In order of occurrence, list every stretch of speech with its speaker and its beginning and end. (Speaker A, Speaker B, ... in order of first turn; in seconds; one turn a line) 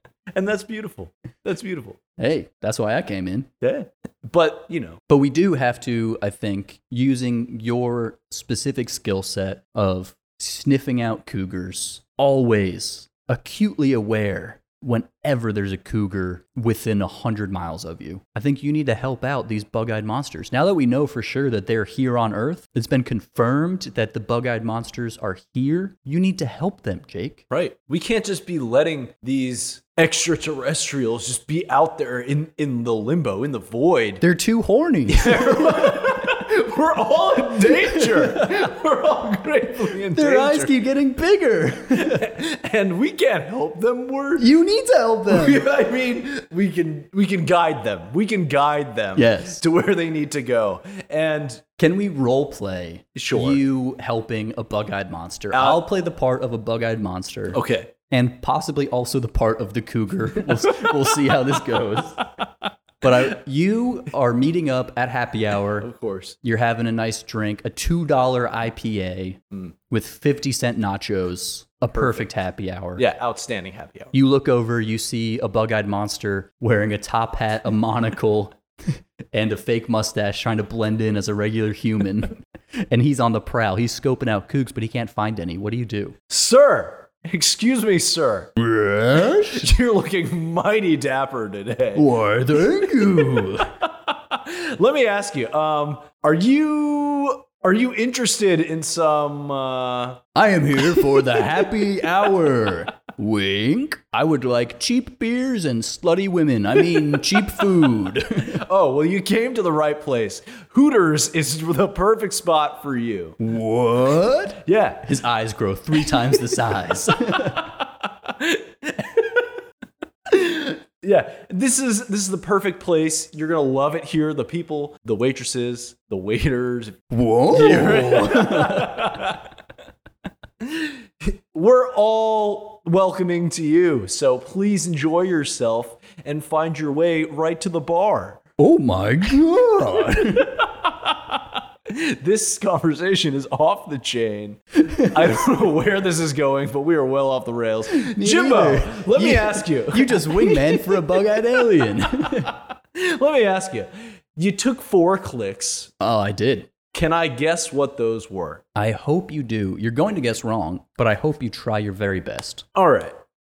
Speaker A: 0.3-2.0
Speaker B: 2.2-3.5
Speaker A: 3.6-5.0
Speaker B: 5.1-27.4
Speaker A: 27.5-34.2
Speaker B: 34.2-36.0
Speaker A: 35.1-40.7
Speaker B: 37.9-38.5
Speaker B: 40.1-42.2
Speaker A: 41.9-44.5
Speaker B: 44.4-45.6
Speaker A: 45.3-51.6
Speaker B: 49.1-49.6
Speaker B: 51.8-62.2
Speaker A: 53.1-53.6
Speaker A: 55.5-55.8
Speaker A: 57.5-57.9
Speaker B: 63.0-65.9
Speaker A: 65.8-66.4
Speaker B: 66.4-73.0
Speaker A: 71.9-72.3
Speaker A: 73.0-74.1
Speaker B: 74.1-82.4
Speaker B: 82.9-86.2
Speaker A: 86.3-88.5
Speaker B: 88.5-89.7
Speaker A: 89.5-92.0
Speaker B: 91.9-93.7
Speaker A: 92.8-100.2
Speaker B: 100.3-108.6
Speaker A: 100.8-101.7
Speaker A: 106.9-107.4
Speaker A: 108.5-113.4
Speaker B: 113.4-117.7
Speaker A: 114.6-115.1
Speaker A: 116.1-116.4
Speaker A: 117.4-119.6
Speaker A: 120.3-129.5
Speaker B: 127.1-129.1
Speaker A: 130.6-138.4
Speaker B: 138.6-140.6
Speaker A: 140.4-155.9
Speaker B: 144.8-145.4
Speaker B: 147.9-152.5
Speaker B: 156.0-156.7
Speaker A: 156.9-158.6
Speaker B: 158.7-162.6
Speaker A: 162.7-163.2